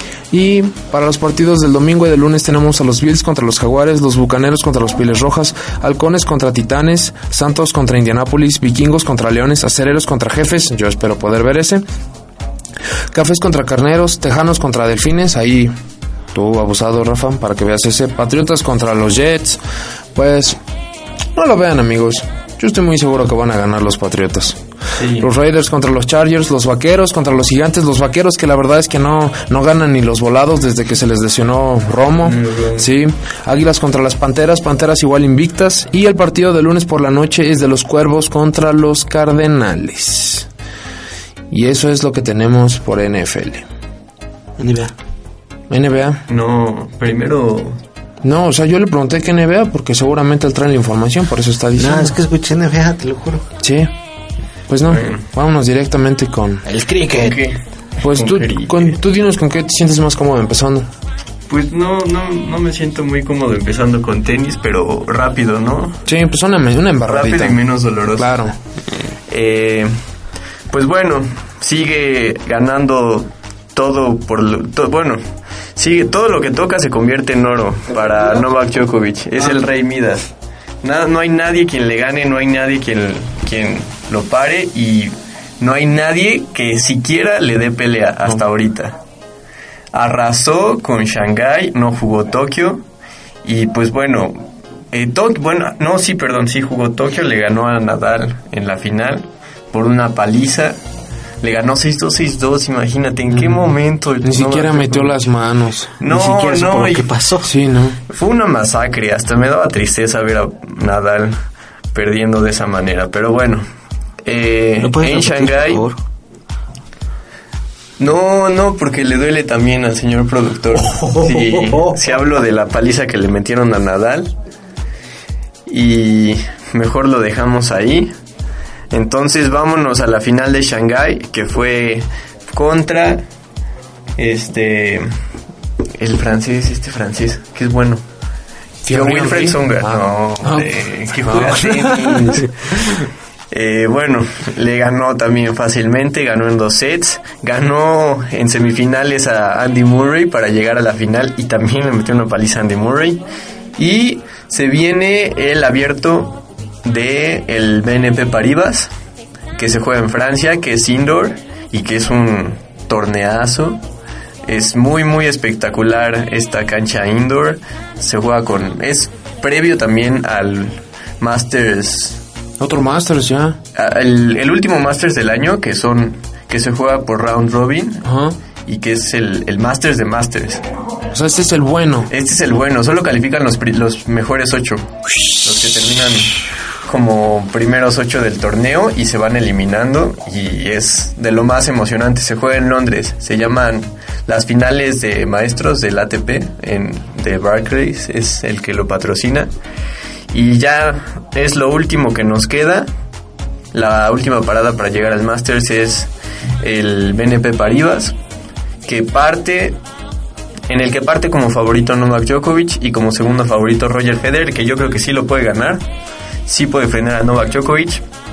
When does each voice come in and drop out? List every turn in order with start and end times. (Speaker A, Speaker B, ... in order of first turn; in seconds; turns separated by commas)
Speaker A: 0.3-11.8, Speaker A: 13.1-15.7, Speaker A: 16.3-19.6, Speaker A: 20.1-20.6, Speaker A: 21.4-24.6, Speaker B: 25.0-25.3, Speaker A: 25.2-40.5, Speaker B: 32.2-32.9, Speaker A: 41.5-43.6, Speaker C: 44.6-44.9, Speaker A: 45.7-46.2, Speaker B: 46.3-47.8, Speaker A: 48.2-52.2, Speaker C: 51.8-53.5, Speaker A: 53.6-53.9, Speaker A: 54.7-56.6, Speaker B: 54.9-55.2, Speaker C: 56.6-57.4, Speaker B: 57.2-59.0, Speaker A: 58.0-60.9, Speaker B: 61.5-66.0, Speaker A: 66.1-67.6, Speaker B: 67.1-68.5, Speaker A: 68.2-68.6, Speaker B: 69.3-70.0, Speaker B: 70.7-75.2, Speaker B: 75.8-80.3, Speaker B: 80.8-89.0, Speaker B: 89.9-92.8, Speaker B: 93.4-100.8, Speaker B: 101.4-105.2, Speaker A: 104.2-105.9, Speaker B: 106.0-107.1, Speaker C: 106.0-107.5, Speaker A: 107.4-108.0, Speaker B: 108.1-111.4, Speaker B: 111.9-113.7, Speaker B: 114.2-115.8, Speaker C: 114.8-116.0, Speaker B: 118.0-124.3, Speaker C: 120.8-122.0, Speaker B: 125.7-128.1, Speaker B: 128.9-133.2, Speaker B: 134.2-135.1, Speaker B: 136.0-138.0, Speaker A: 138.8-142.5, Speaker B: 138.9-143.0, Speaker B: 143.5-153.2, Speaker B: 153.8-158.9, Speaker B: 159.6-163.8, Speaker B: 164.4-172.2, Speaker A: 172.6-173.6, Speaker B: 173.8-178.1, Speaker A: 178.0-178.4, Speaker B: 178.7-180.6, Speaker A: 181.1-182.1, Speaker B: 182.1-199.5, Speaker B: 200.3-202.9, Speaker B: 203.7-208.1, Speaker B: 208.8-209.8, Speaker B: 210.7-215.8, Speaker B: 216.5-218.0